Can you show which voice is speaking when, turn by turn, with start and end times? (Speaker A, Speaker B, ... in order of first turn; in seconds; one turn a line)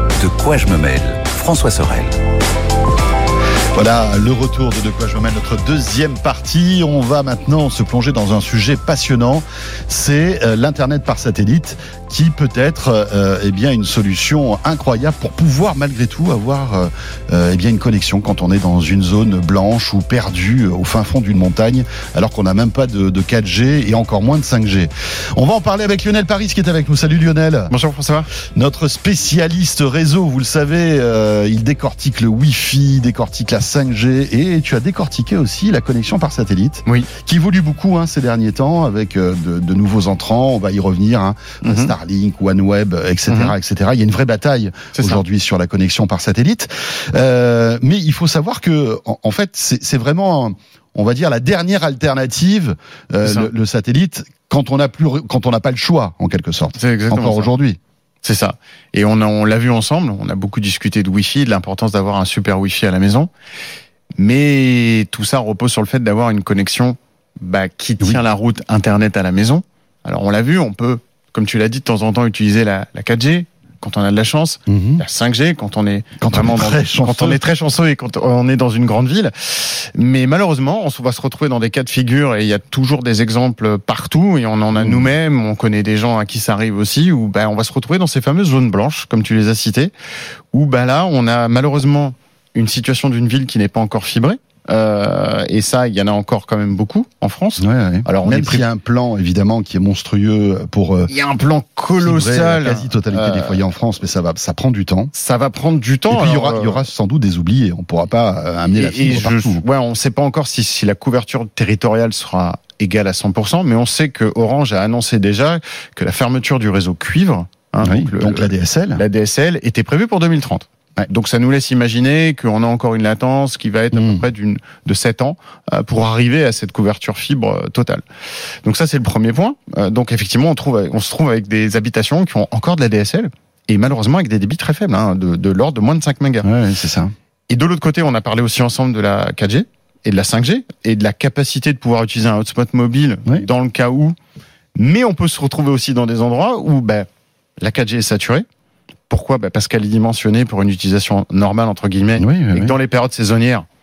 Speaker A: 0.2-2.1
Speaker B: 3.7-27.7
Speaker C: 27.7-28.3
Speaker B: 28.4-57.8
Speaker C: 41.6-41.9
Speaker C: 43.3-43.5
Speaker C: 44.9-45.2
Speaker C: 53.2-53.5
Speaker C: 56.8-57.5
Speaker C: 58.2-63.3
Speaker C: 64.2-89.9
Speaker B: 74.7-75.0
Speaker B: 76.2-77.4
Speaker B: 84.8-85.0
Speaker C: 90.5-98.7
Speaker B: 97.6-101.1
Speaker C: 101.1-103.6
Speaker B: 102.0-105.1
Speaker C: 105.1-106.9
Speaker B: 106.1-109.6
Speaker C: 108.8-128.0
Speaker B: 117.8-119.0
Speaker B: 123.9-124.2
Speaker C: 128.6-136.5
Speaker B: 136.4-137.1
Speaker C: 137.5-144.1
Speaker C: 144.8-147.1
Speaker C: 147.6-148.4
Speaker C: 149.1-153.7
Speaker B: 152.2-152.7